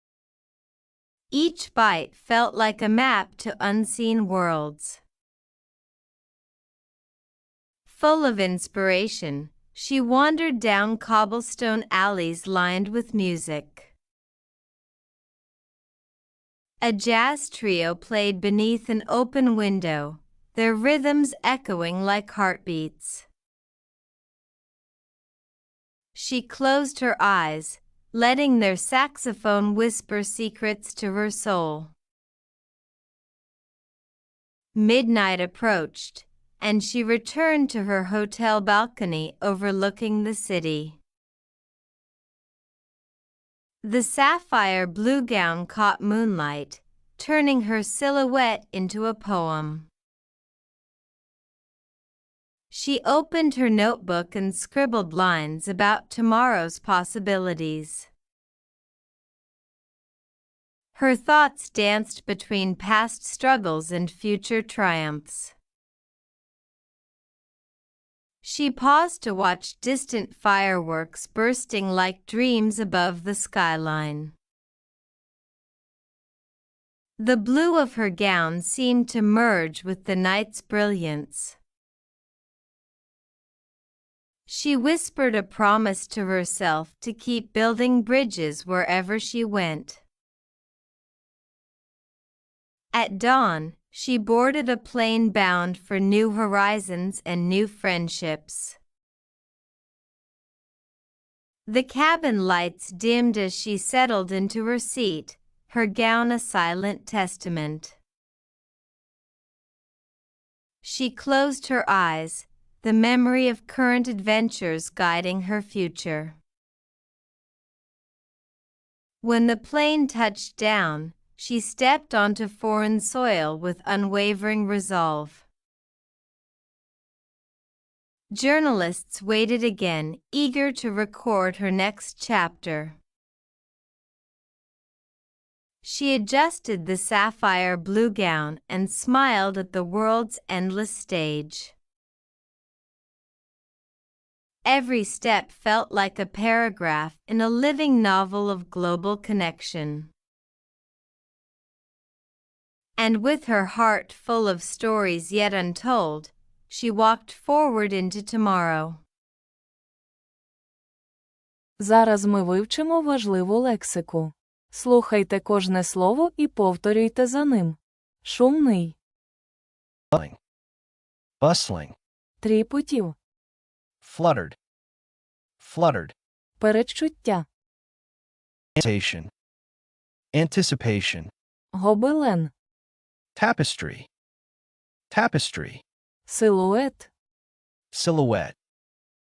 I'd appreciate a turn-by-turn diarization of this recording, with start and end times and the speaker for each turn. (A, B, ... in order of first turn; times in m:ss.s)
0:01.3-0:05.0 A
0:07.9-0:13.9 A
0:16.8-0:23.2 A
0:26.1-0:31.9 A
0:34.7-0:41.0 A
0:43.8-0:49.9 A
0:52.7-0:58.1 A
1:00.9-1:05.5 A
1:08.4-1:14.3 A
1:17.2-1:21.6 A
1:24.5-1:30.0 A
1:32.9-1:38.8 A
1:41.6-1:48.0 A
1:50.8-1:56.4 A
1:59.2-2:05.4 A
2:08.3-2:13.0 A
2:15.8-2:21.7 A
2:24.6-2:30.1 A
2:33.0-2:39.0 A
2:41.8-2:49.0 B
2:51.4-2:51.9 C
2:52.4-2:53.2 B
2:54.0-2:54.6 C
2:55.6-2:56.1 C
2:56.6-2:57.4 B
2:58.8-2:59.3 C
3:00.3-3:01.3 C
3:01.7-3:02.5 B
3:03.4-3:04.1 C
3:05.1-3:05.8 C
3:06.3-3:07.1 B
3:07.9-3:08.6 C